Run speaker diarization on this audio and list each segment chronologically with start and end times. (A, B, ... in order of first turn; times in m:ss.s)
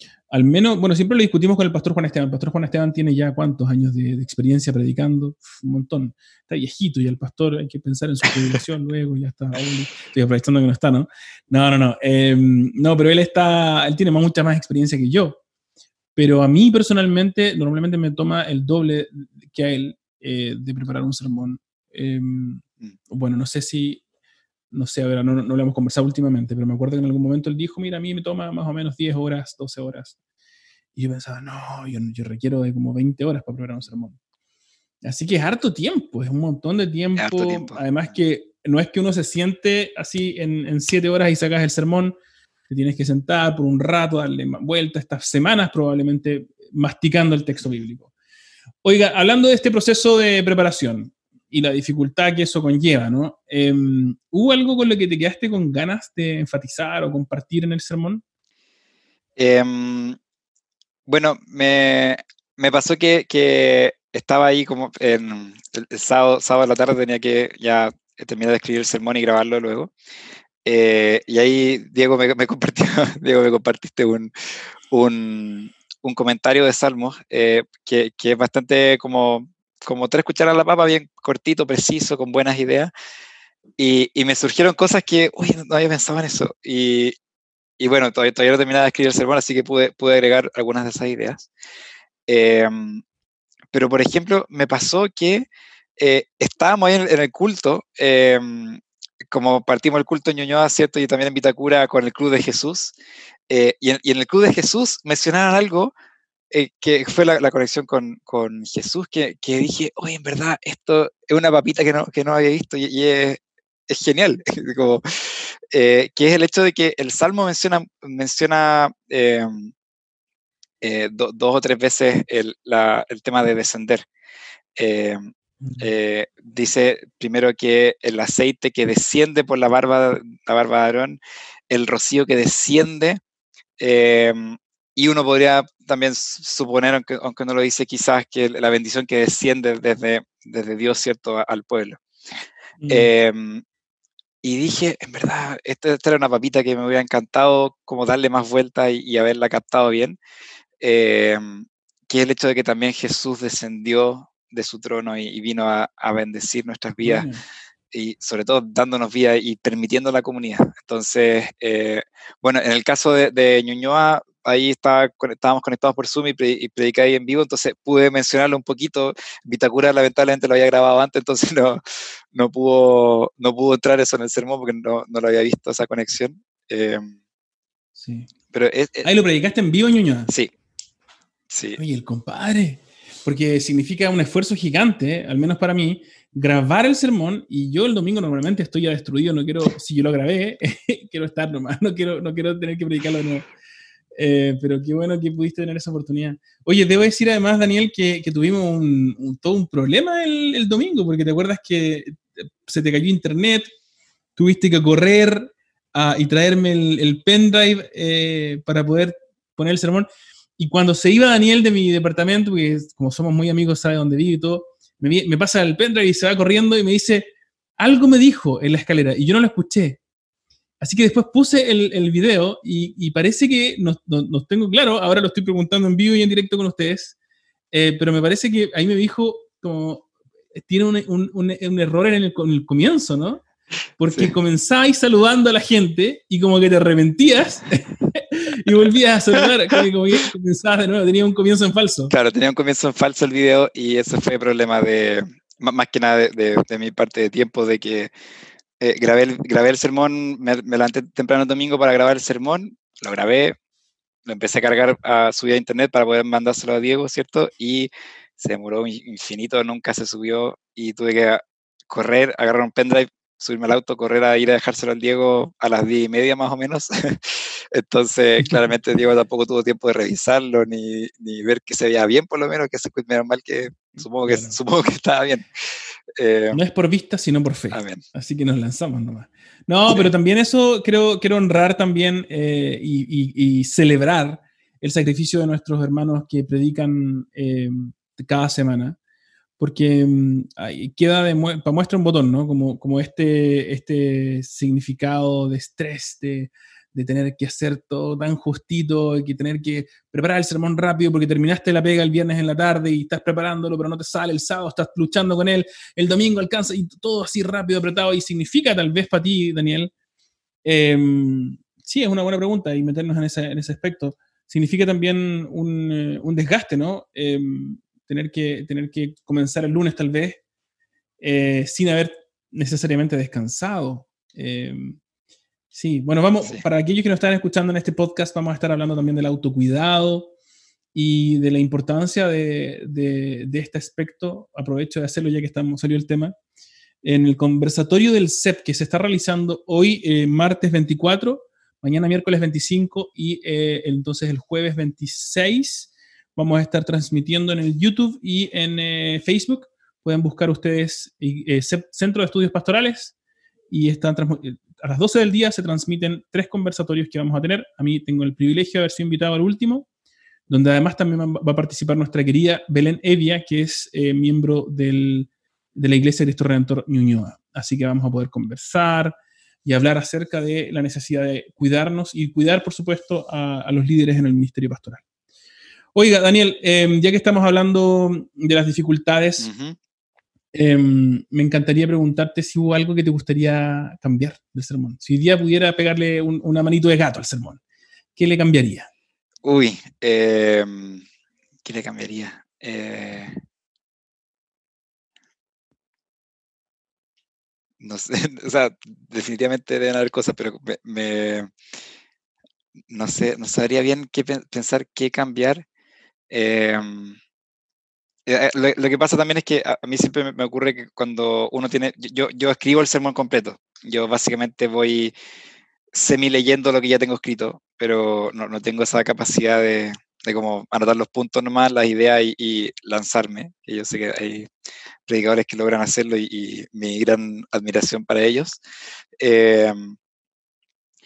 0:00.3-0:15.4 A
0:16.2-0:24.0 A
0:24.7-0:30.2 A
0:31.0-0:34.2 A
0:35.0-0:42.2 A
0:37.2-0:37.8 B
0:42.7-0:48.1 A
0:48.8-0:58.2 A
0:59.4-1:00.2 B
1:01.1-1:09.9 B
1:10.6-1:14.3 B
1:14.9-1:22.9 B
1:23.8-1:27.2 B
1:27.8-1:31.5 B
1:32.3-1:33.0 B
1:33.7-1:35.4 B
1:36.0-1:42.9 B
1:43.5-1:45.9 B
1:46.5-1:59.7 B
2:00.8-2:04.1 B
2:04.8-2:05.2 B
2:05.6-2:05.9 A
2:05.8-2:13.2 B
2:13.8-2:22.0 B
2:22.8-2:23.1 A
2:22.9-2:23.6 B
2:24.4-2:30.2 B
2:30.8-2:37.3 B
2:37.0-2:37.4 A
2:37.9-2:51.8 B
2:52.3-2:57.1 B
2:58.0-2:58.3 A
2:58.5-2:59.1 B
2:59.0-3:00.3 A
3:01.5-3:01.8 B
3:01.8-3:13.5 A
3:14.1-3:23.7 A
3:24.4-3:40.0 A
3:40.8-3:47.2 A
3:47.7-3:53.4 A
3:54.0-4:02.1 A
4:02.1-4:08.1 B
4:08.8-4:13.6 B
4:14.2-4:35.5 B
4:34.2-4:34.6 A
4:36.2-4:36.6 B
4:36.5-4:49.0 A
4:37.7-4:38.0 B
4:49.6-5:09.9 A
5:10.6-5:20.4 A
5:21.2-5:25.0 A
5:25.7-5:30.3 A
5:30.9-5:36.3 A
5:37.0-5:53.1 A
5:53.7-5:59.9 A
6:00.5-6:15.0 A
6:15.9-6:19.5 A
6:19.4-6:19.8 B
6:20.5-6:27.6 A
6:28.2-6:28.9 A
6:29.4-6:31.0 B
6:31.6-6:33.4 B
6:37.8-6:41.5 B
6:42.9-6:45.6 B
6:46.3-6:47.2 B
6:48.2-6:55.1 B
6:55.9-7:04.5 B
7:05.1-7:08.6 B
7:09.2-7:10.0 B